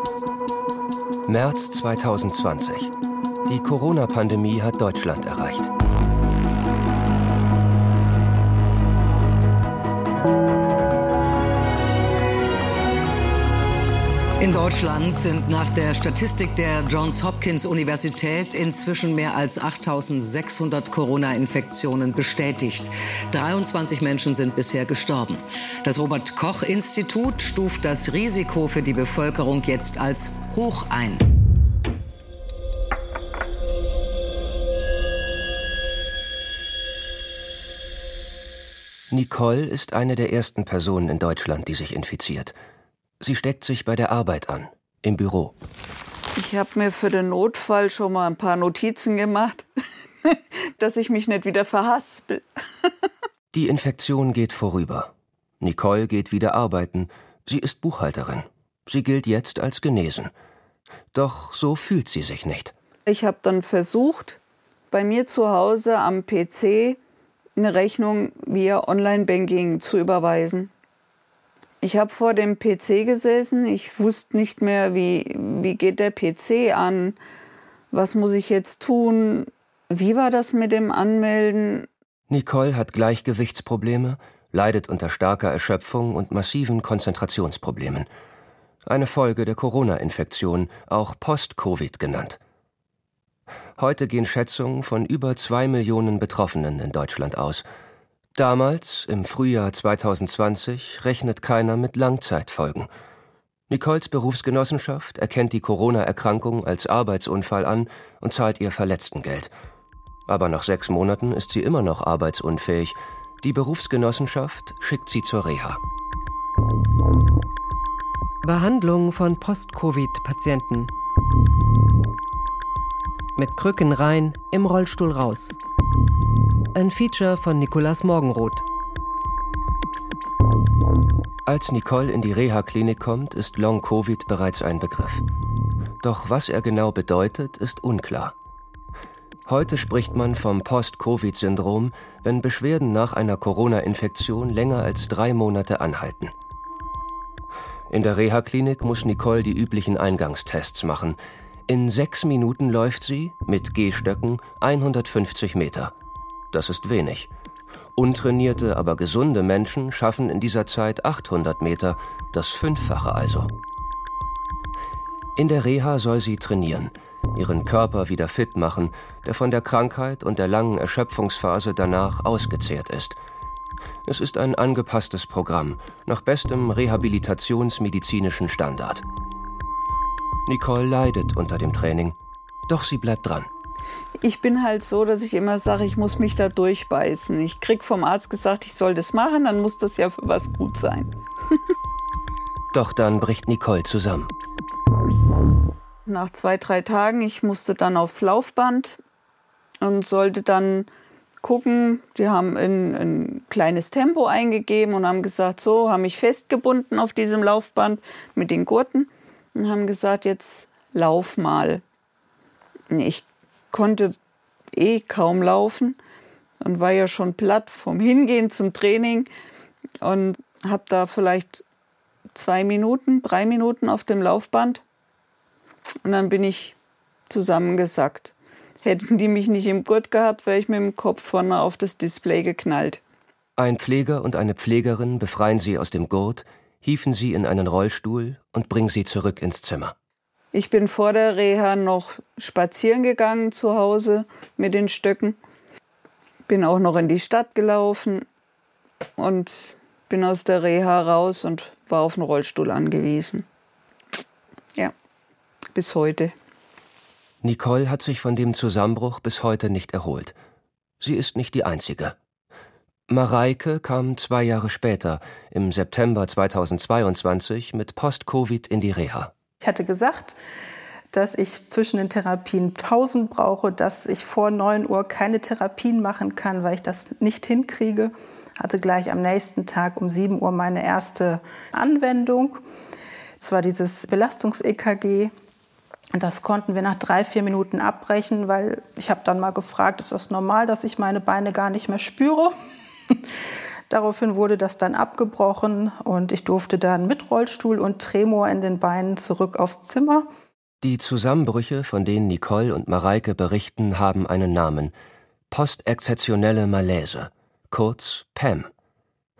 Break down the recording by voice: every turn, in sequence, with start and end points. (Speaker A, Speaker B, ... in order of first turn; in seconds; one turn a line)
Speaker A: 1.2-2.9
Speaker A: 3.5-5.7
Speaker B: 14.4-31.2
Speaker A: 39.1-42.5
Speaker A: 43.2-45.5
Speaker C: 46.4-49.7
Speaker C: 50.3-52.5
Speaker A: 53.5-60.3
Speaker A: 61.1-62.7
Speaker C: 63.1-64.4
Speaker C: 64.9-67.0
Speaker C: 67.6-70.7
Speaker C: 71.8-77.2
Speaker C: 77.9-81.9
Speaker A: 82.3-88.1
Speaker A: 88.9-92.4
Speaker A: 93.8-97.7
Speaker A: 98.4-102.9
Speaker A: 103.7-109.5
Speaker A: 110.3-115.8
Speaker D: 118.4-120.9
Speaker D: 123.4-125.6
Speaker D: 126.7-128.6
Speaker A: 131.4-135.2
Speaker A: 136.0-138.3
Speaker A: 139.5-146.3
Speaker A: 147.9-155.9
Speaker A: 156.5-157.3
Speaker A: 157.9-163.5
Speaker A: 165.4-173.2
Speaker A: 174.1-179.0
Speaker A: 180.4-182.2
Speaker A: 182.7-183.5
Speaker C: 184.2-191.1
Speaker A: 192.7-194.3
Speaker C: 196.1-199.0
Speaker C: 199.8-200.9
Speaker C: 201.4-211.8
Speaker C: 212.9-214.1
Speaker C: 214.7-216.0
Speaker C: 216.6-219.3
Speaker C: 220.0-221.6
Speaker C: 222.3-224.8
Speaker C: 226.0-226.8
Speaker C: 227.3-233.0
Speaker A: 233.6-239.9
Speaker C: 240.5-245.4
Speaker C: 246.5-248.2
Speaker C: 249.2-253.4
Speaker C: 255.7-256.3
Speaker A: 257.4-260.4
Speaker A: 261.0-262.2
Speaker A: 263.1-269.3
Speaker E: 269.6-270.4
Speaker E: 271.1-282.6
Speaker E: 283.4-285.3
Speaker E: 286.1-292.5
Speaker E: 293.9-300.3
Speaker A: 300.8-304.9
Speaker A: 305.5-308.7